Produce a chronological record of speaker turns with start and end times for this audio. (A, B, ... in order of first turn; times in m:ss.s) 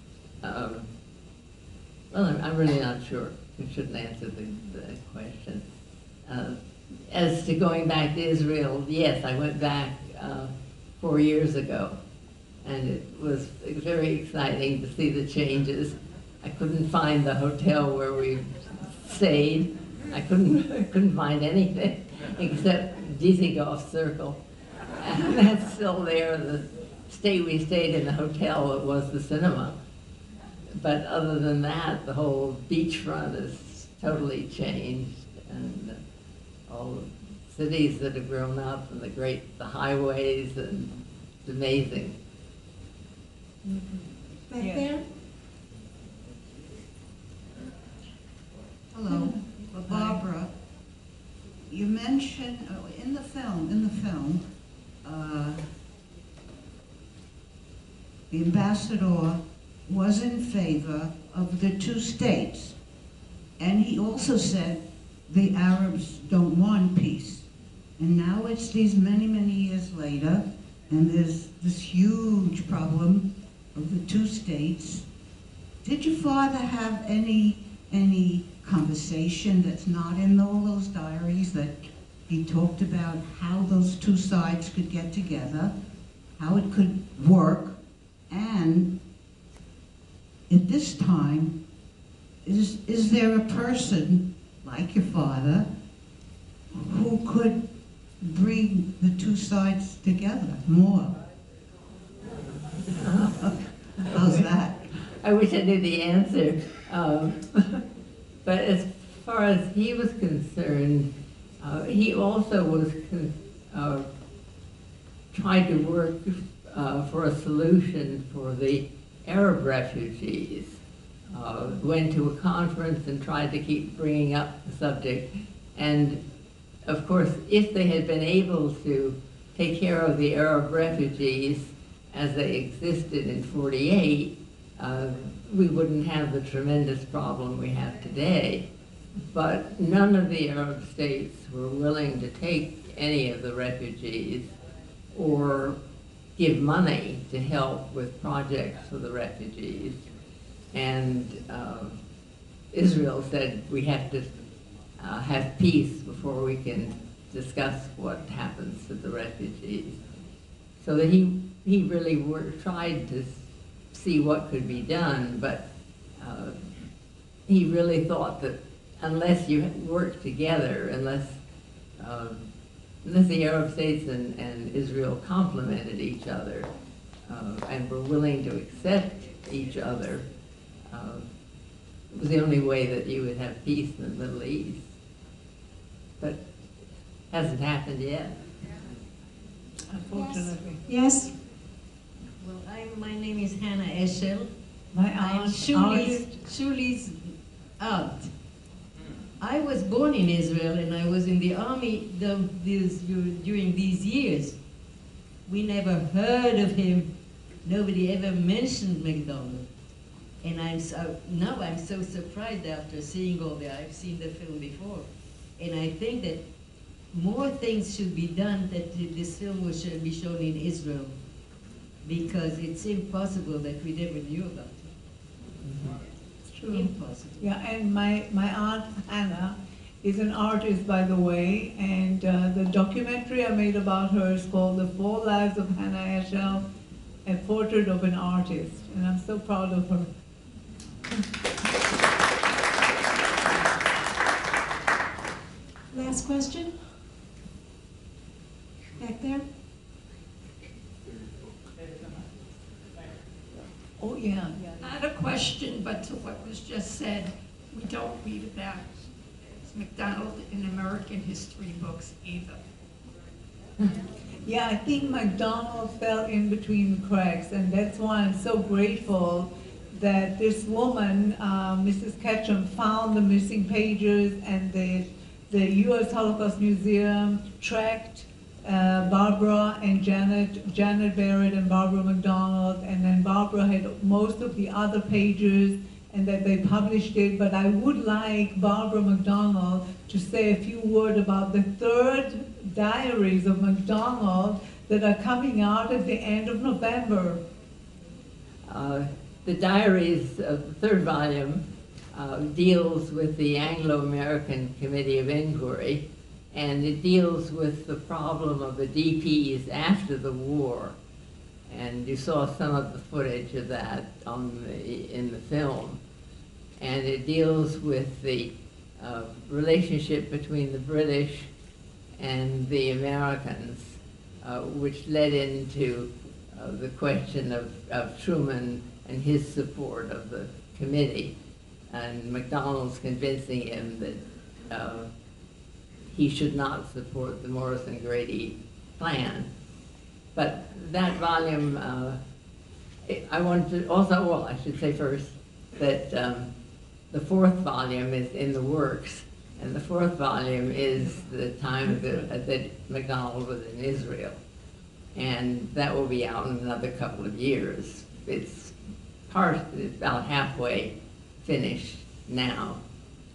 0:00.4-0:00.9 A
0:02.1-0:05.6 A
0:06.3-0:12.0 A
0:12.6-0:24.4 A
0:25.0-0:29.8 A
0:30.7-0:36.0 A
0:36.7-0:42.2 A
0:43.6-0:44.9 B
0:44.5-0:45.0 C
0:48.9-0:50.5 D
0:49.1-0:49.4 C
0:49.3-0:50.2 B
0:51.7-0:54.4 D
0:55.0-0:55.7 D
0:58.3-1:02.8 D
1:03.6-1:15.1 D
1:15.8-1:25.7 D
1:26.4-1:27.8 D
1:28.3-1:29.0 D
1:30.5-1:31.6 D
1:32.4-1:35.7 D
1:36.8-1:37.7 D
1:38.2-1:41.2 D
1:42.9-1:43.4 A
1:43.4-1:44.9 D
1:44.1-1:47.8 A
1:48.4-1:51.1 A
1:51.6-1:54.1 A
1:55.3-2:00.8 A
2:01.3-2:06.2 A
2:06.9-2:18.7 A
2:19.3-2:24.5 A
2:25.1-2:25.8 A
2:26.4-2:30.0 A
2:30.7-2:32.0 A
2:32.7-2:34.4 A
2:35.0-2:40.0 A
2:40.8-2:45.6 A
2:46.2-2:46.7 A
2:47.5-2:51.4 A
2:52.0-2:52.5 A
2:53.0-2:56.7 A
2:57.3-3:00.2 A
3:00.9-3:01.3 A
3:02.1-3:04.8 A
3:07.3-3:08.4 A
3:09.9-3:10.8 B
3:10.1-3:11.3 C
3:12.4-3:14.5 E
3:14.9-3:16.5 B
3:15.2-3:18.3 E
3:19.4-3:24.6 E
3:25.5-3:27.1 E
3:27.6-3:29.7 E
3:30.4-3:35.1 E
3:35.6-3:36.4 E
3:37.1-3:41.1 E
3:42.0-3:44.9 E
3:45.6-3:46.0 E
3:46.5-3:56.6 B
3:46.7-3:47.5 E
3:57.2-4:00.1 B
4:05.9-4:06.7 C
4:09.0-4:09.4 C
4:14.0-4:14.7 B
4:14.8-4:19.1 F
4:19.6-4:22.6 F
4:24.5-4:57.4 B
4:58.7-5:11.0 A
5:11.7-5:16.0 A
5:16.8-5:21.5 A
5:22.2-5:31.3 A
5:31.9-5:35.1 A
5:36.1-5:39.5 A
5:40.4-5:42.2 A
5:43.1-5:46.5 A
5:47.1-5:54.4 A
5:51.8-5:52.3 B
5:55.2-5:58.8 A
5:59.3-6:02.8 A